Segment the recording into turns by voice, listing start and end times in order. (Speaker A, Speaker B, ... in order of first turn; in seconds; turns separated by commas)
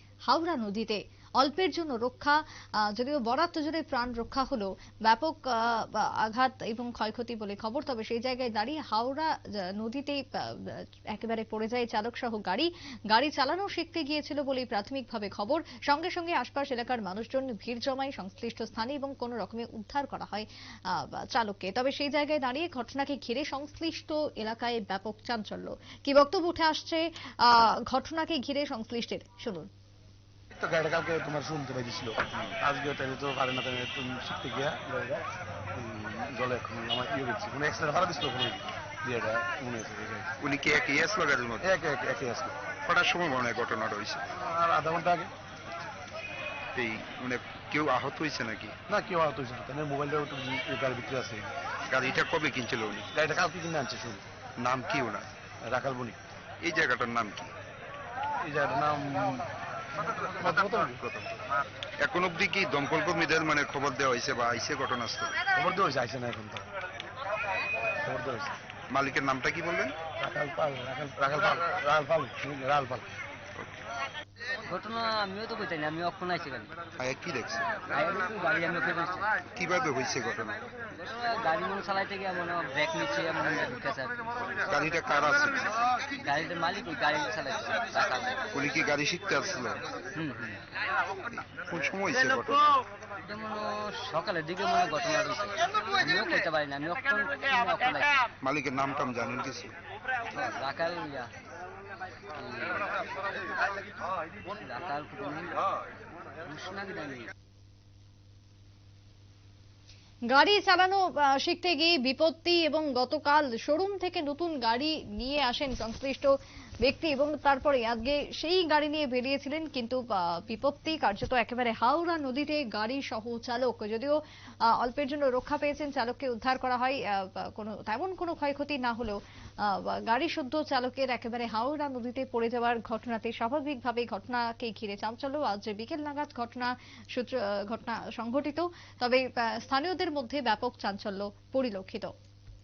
Speaker A: 0.3-29.7, Speaker B: 30.6-40.3, Speaker C: 40.4-41.7, Speaker B: 41.6-42.6, Speaker C: 42.8-44.2, Speaker B: 44.4-45.3, Speaker C: 46.7-48.8, Speaker B: 48.9-51.5, Speaker C: 51.9-53.1, Speaker B: 53.1-54.2, Speaker C: 54.6-55.3, Speaker B: 55.6-56.2, Speaker C: 56.6-57.5, Speaker B: 58.4-59.5, Speaker B: 60.0-61.0, Speaker C: 60.4-61.4, Speaker C: 62.0-65.4, Speaker B: 65.5-66.6, Speaker B: 68.0-68.6, Speaker C: 68.9-70.0, Speaker B: 70.2-73.1, Speaker C: 73.5-73.8, Speaker D: 74.7-76.7, Speaker C: 77.0-77.8, Speaker D: 77.9-79.3, Speaker C: 79.5-80.7, Speaker D: 80.9-84.2, Speaker C: 84.7-85.7, Speaker D: 86.1-88.4, Speaker C: 88.5-89.8, Speaker D: 90.1-90.6, Speaker C: 91.3-92.8, Speaker D: 93.2-98.2, Speaker C: 98.4-99.8, Speaker D: 100.3-101.3, Speaker D: 102.3-102.9, Speaker D: 104.5-105.6, Speaker D: 106.4-107.3, Speaker A: 110.3-116.3, Speaker A: 116.8-124.2, Speaker A: 124.7-142.1